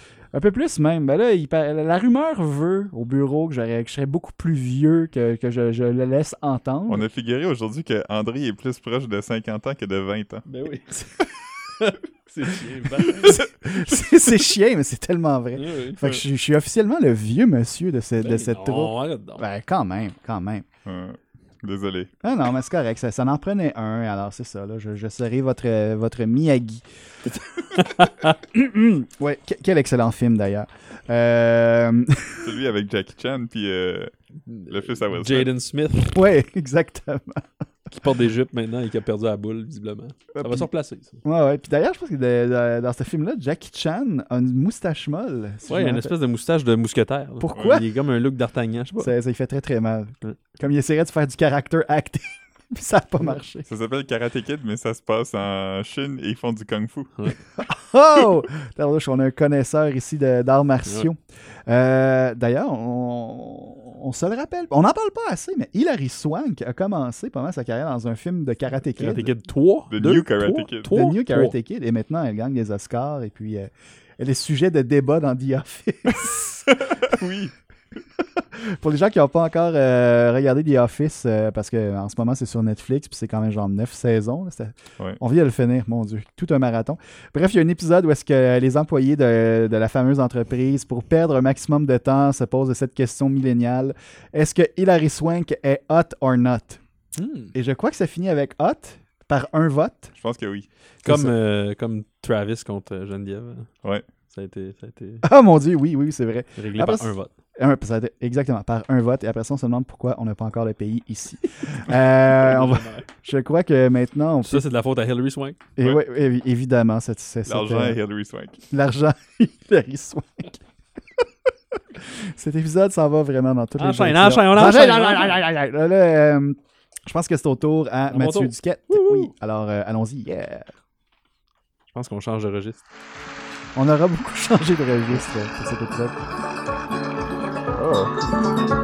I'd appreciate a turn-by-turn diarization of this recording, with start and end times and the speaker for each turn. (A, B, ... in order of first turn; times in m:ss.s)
0:00.3-0:07.0 A
0:06.9-0:10.4 B
0:10.5-0:11.0 C
0:11.8-0:13.4 C
0:13.0-0:20.6 A
0:15.5-0:16.2 C
0:18.2-0:19.4 C
0:20.8-0:22.1 B
0:22.2-0:26.8 A
0:27.7-0:28.3 C
0:28.4-0:32.5 A
0:32.4-0:34.1 B
0:34.5-0:36.2 C
0:34.7-0:35.5 B
0:36.1-0:37.5 A
0:37.9-0:41.2 C
0:40.4-0:40.7 A
0:41.2-0:46.1 A
0:45.7-0:49.1 C
0:47.4-0:47.8 A
0:49.0-0:53.7 A
0:53.6-0:57.1 B
0:57.6-1:09.3 A
1:09.0-1:11.5 C
1:09.9-1:10.9 B
1:10.9-1:16.6 A
1:16.7-1:17.5 B
1:18.4-1:36.8 A
1:37.2-1:37.5 C
1:37.5-1:40.1 A
1:40.2-1:40.6 B
1:41.0-1:43.7 C
1:41.0-1:41.3 A
1:44.3-1:45.2 C
1:45.2-1:54.6 A
1:46.6-1:47.3 C
1:52.3-1:53.1 C
1:54.4-1:55.6 C
1:55.8-1:58.0 A
1:57.4-1:58.6 B
1:58.7-2:00.6 A
2:02.2-2:10.7 A
2:03.8-2:05.4 C
2:08.1-2:09.3 C
2:11.9-2:12.8 C
2:13.7-2:16.2 A